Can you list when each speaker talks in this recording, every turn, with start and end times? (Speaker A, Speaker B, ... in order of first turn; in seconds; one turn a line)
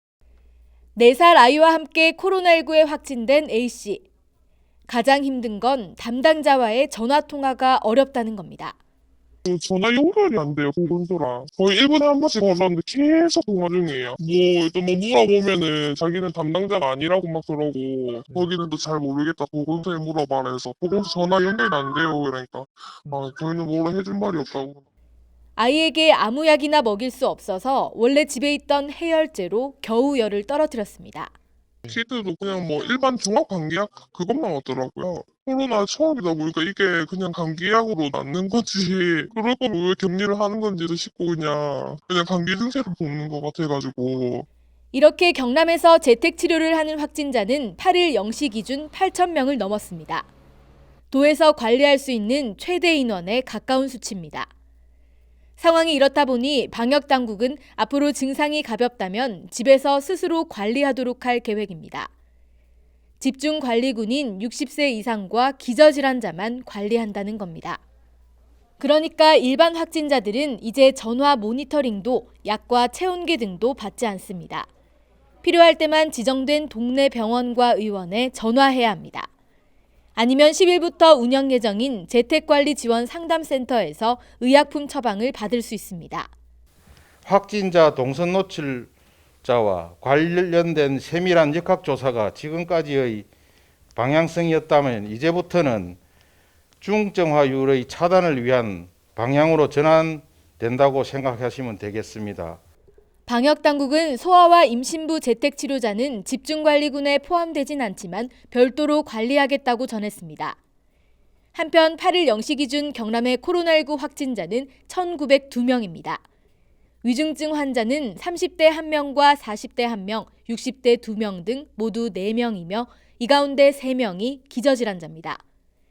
Speaker A: 0.9-4.0
Speaker A: 4.9-8.7
Speaker B: 9.4-24.8
Speaker A: 25.6-31.3
Speaker B: 31.8-44.5
Speaker A: 44.9-50.2
Speaker A: 51.1-54.5
Speaker A: 55.6-62.1
Speaker A: 63.2-67.8
Speaker A: 68.8-74.7
Speaker A: 75.4-79.3
Speaker A: 80.2-86.3
Speaker C: 87.2-88.9
Speaker C: 89.4-93.3
Speaker C: 94.0-96.0
Speaker C: 96.8-102.6
Speaker A: 103.3-110.5
Speaker A: 111.5-116.2
Speaker A: 117.0-125.4